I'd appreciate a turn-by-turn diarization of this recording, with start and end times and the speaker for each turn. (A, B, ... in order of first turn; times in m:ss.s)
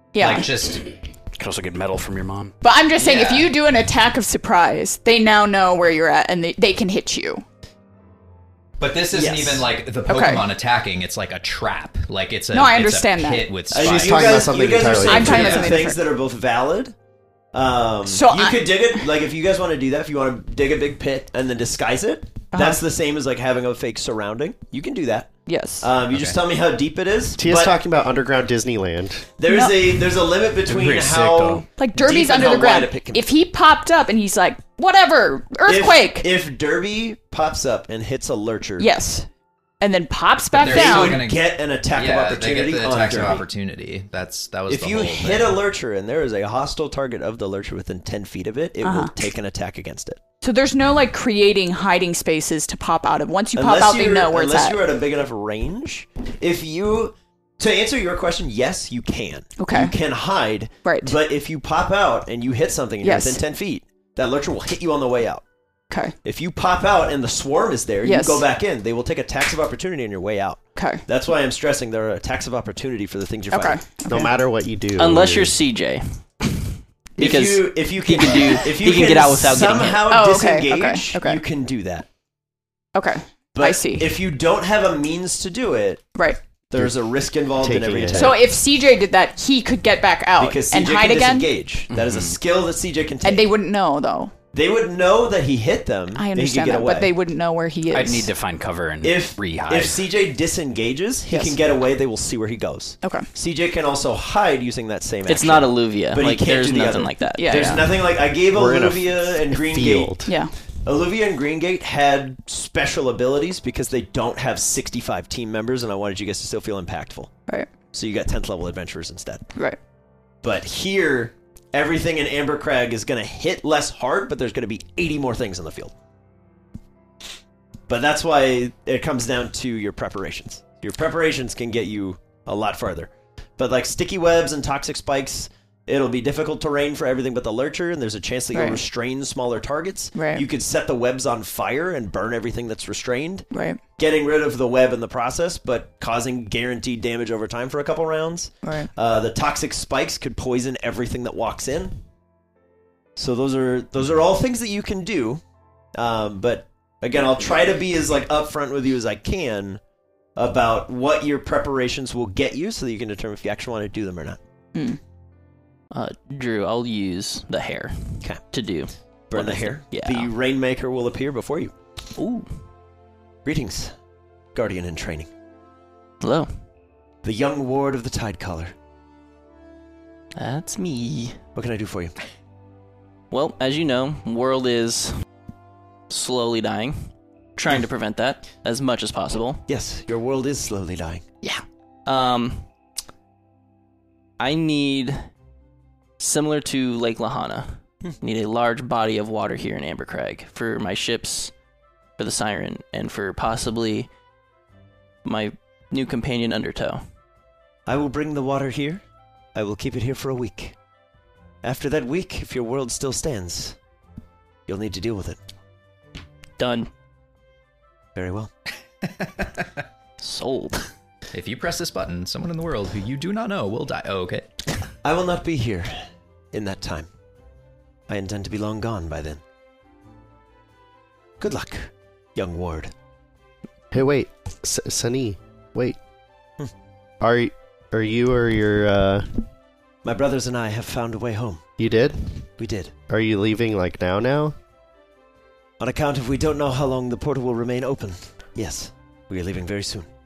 0:00.1-0:00.5 A
0:00.2-0:00.9 B
0:01.3-0:02.6 C
0:02.6-0:07.4 A
0:03.0-0:03.5 B
0:08.8-0:14.5 B
0:09.1-0:09.7 D
0:10.1-0:10.4 A
0:12.5-0:13.7 A
0:13.7-0:16.9 D
0:13.7-0:15.7 E
0:14.8-0:16.0 A
0:15.3-0:15.6 B
0:17.5-0:27.8 D
0:18.1-0:19.0 A
0:22.5-0:22.8 A
0:25.5-0:25.9 A
0:26.1-0:26.4 B
0:27.4-0:29.3 E
0:29.4-0:33.2 D
0:29.4-0:30.0 A
0:30.7-0:31.7 C
0:31.8-0:36.3 A
0:35.6-0:38.9 D
0:38.8-0:39.3 A
0:39.8-0:41.2 A
0:40.5-0:45.6 B
0:40.6-0:43.4 D
0:44.7-0:50.2 D
0:48.8-0:49.1 A
0:50.4-0:54.8 A
0:53.6-1:05.4 D
0:59.6-0:59.9 A
1:00.8-1:01.2 A
1:03.0-1:03.4 A
1:05.9-1:06.2 A
1:06.2-1:13.8 D
1:08.0-1:08.4 A
1:10.8-1:11.0 A
1:13.5-1:14.4 A
1:14.1-1:15.5 E
1:15.0-1:20.0 F
1:17.2-1:22.1 D
1:20.1-1:21.4 A
1:23.0-1:24.1 A
1:23.5-1:26.2 D
1:26.2-1:26.4 A
1:26.7-1:28.4 D
1:27.6-1:28.4 E
1:28.2-1:31.5 A
1:30.4-1:33.5 D
1:31.9-1:32.4 C
1:33.2-1:34.3 A
1:34.5-1:37.1 D
1:36.1-1:38.3 A
1:37.9-1:40.1 C
1:39.0-1:50.2 D
1:41.3-1:41.6 A
1:43.0-1:43.3 A
1:45.3-1:47.7 F
1:47.3-1:47.9 A
1:48.4-1:50.3 E
1:50.2-1:50.5 A
1:50.8-1:57.3 D
1:57.9-1:59.5 D
2:00.4-2:05.9 D
2:07.9-2:32.0 D
2:18.5-2:18.8 A
2:20.2-2:20.4 A
2:23.5-2:23.8 A
2:28.6-2:28.9 A
2:33.2-2:35.4 D
2:36.0-2:39.8 D
2:40.4-2:44.4 D
2:45.9-2:50.3 F
2:49.3-2:51.7 D
2:52.2-2:52.5 F
2:53.4-2:53.9 D
2:54.6-2:55.3 D
2:56.2-2:56.5 F
2:57.2-2:58.7 D
3:00.4-3:01.4 F
3:01.6-3:02.2 D
3:03.3-3:05.1 F
3:06.1-3:09.6 F
3:09.7-3:11.3 D
3:11.4-3:12.7 F
3:14.4-3:15.2 F
3:16.2-3:21.5 F
3:22.2-3:24.1 F
3:25.2-3:27.0 F
3:27.9-3:29.0 D
3:29.6-3:30.8 D
3:31.6-3:33.8 D
3:34.7-3:35.4 D
3:36.6-3:36.9 F
3:38.2-3:38.5 D
3:39.0-3:39.6 B
3:40.2-3:40.9 F
3:41.3-3:44.5 B
3:45.0-3:47.1 D
3:48.1-3:49.4 D
3:51.4-3:52.9 D
3:53.9-3:56.0 E
3:57.2-3:59.4 E
4:00.0-4:01.6 D
4:01.8-4:02.5 E
4:02.6-4:02.9 D
4:03.1-4:04.6 E
4:05.8-4:10.1 D